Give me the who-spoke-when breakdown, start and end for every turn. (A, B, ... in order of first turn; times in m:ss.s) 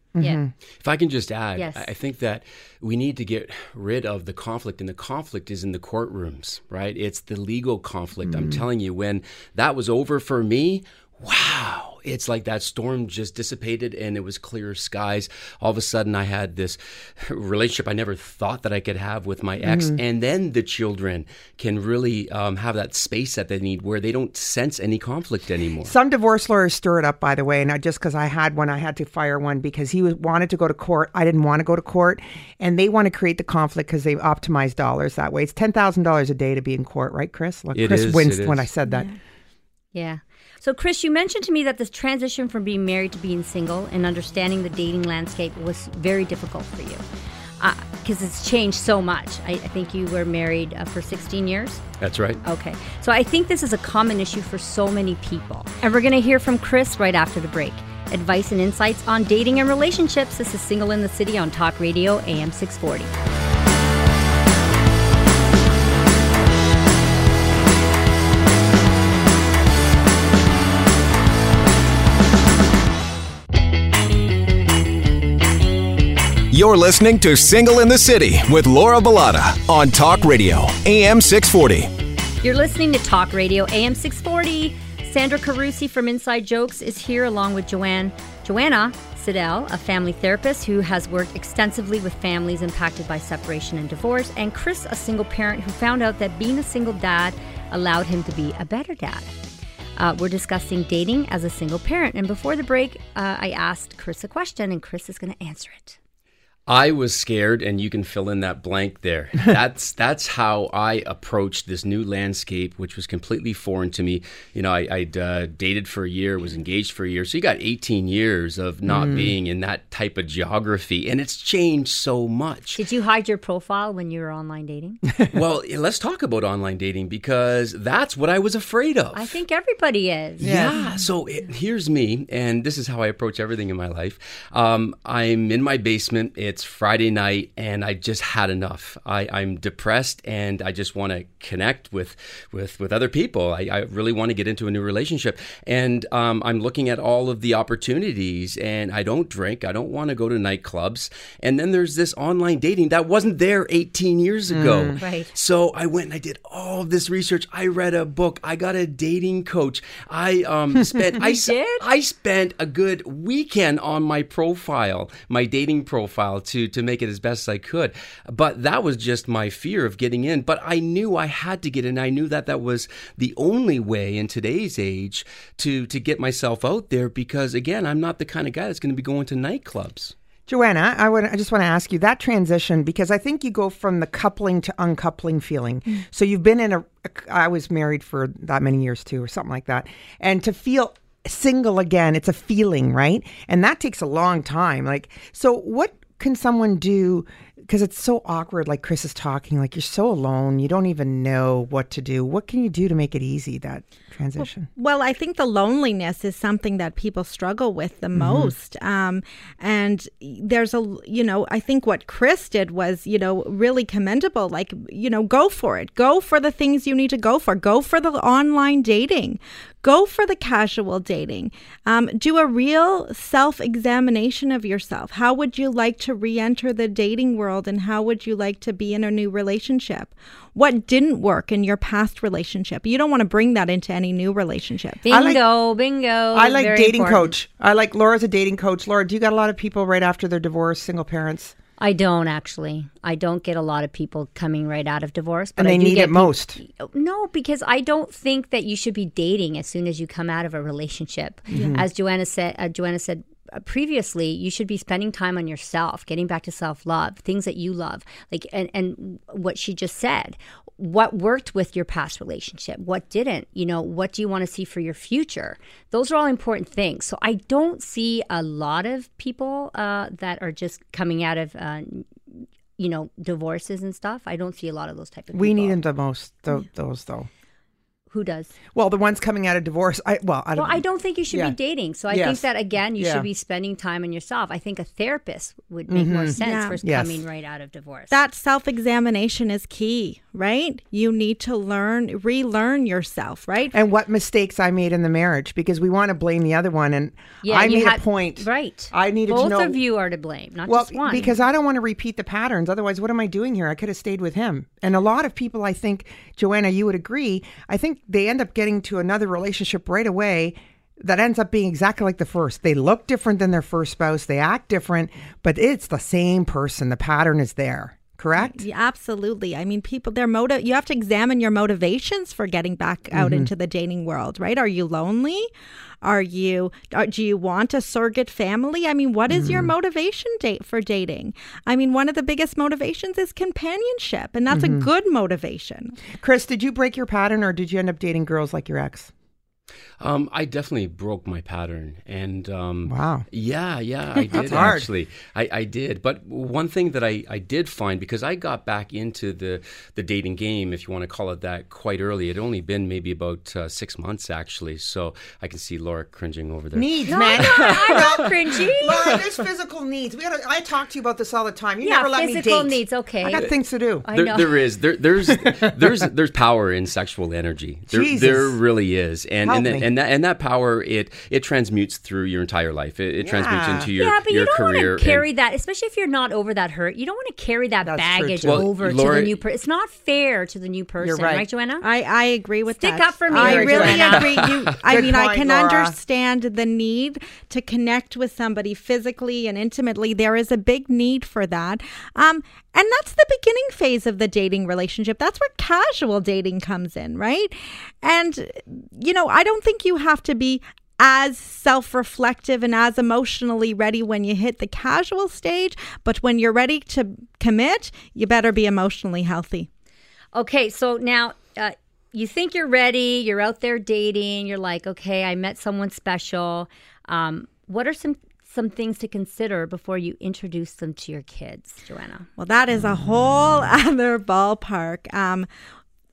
0:00.2-0:00.5 A
0:00.8-0:25.9 B
0:01.6-0:01.9 C
0:08.3-0:08.6 A
0:19.6-0:20.0 A
0:25.8-0:39.1 A
0:37.7-0:38.7 B
0:38.9-0:39.2 D
0:39.9-0:47.0 C
0:47.6-0:51.8 C
0:52.0-0:52.4 B
0:52.4-1:03.2 C
1:16.5-1:21.9 E
1:22.4-1:39.3 C
1:40.0-1:46.0 C
1:46.7-2:02.8 B
1:58.9-1:59.3 A
2:02.8-2:05.0 C
2:05.3-2:09.3 B
2:09.1-2:10.7 C
2:10.4-3:00.1 B
2:10.4-2:10.9 A
2:34.5-2:35.0 A
2:35.0-2:35.3 C
2:41.2-2:41.8 C
3:00.5-3:24.7 A
3:24.4-3:55.0 D
3:28.2-3:28.5 A
3:55.0-3:57.3 C
3:55.1-3:55.4 A
3:56.3-4:01.5 A
4:01.8-4:35.8 C
4:05.6-4:06.6 A
4:11.5-4:11.8 A
4:11.5-4:11.8 D
4:35.3-4:37.3 A
4:38.1-4:38.5 C
4:38.7-4:41.6 A
4:40.6-4:48.2 C
4:42.1-4:43.3 A
4:45.9-4:47.2 A
4:46.4-4:46.8 D
4:48.1-4:53.8 D
4:53.7-4:59.8 A
4:57.4-5:01.4 C
5:00.7-5:18.6 A
5:18.4-5:25.5 D
5:23.1-5:23.5 A
5:26.0-5:36.0 D
5:29.3-5:29.7 A
5:34.5-5:34.9 A
5:36.1-5:39.1 A
5:40.0-5:58.1 B
5:42.8-5:43.3 A
5:44.3-5:44.9 A
5:56.7-6:04.1 A
5:57.1-5:59.2 C
6:01.8-6:03.5 C
6:04.0-6:04.5 C
6:04.1-6:15.3 B
6:05.3-6:05.8 A
6:07.9-6:08.6 A
6:09.4-6:09.9 A
6:13.2-6:13.9 A
6:14.0-6:21.8 C
6:17.8-6:18.7 A
6:18.4-6:19.4 B
6:21.0-6:21.5 A
6:21.8-6:49.7 D
6:22.8-6:24.4 C
6:23.3-6:26.0 A
6:50.3-7:02.3 C
7:02.4-7:05.5 D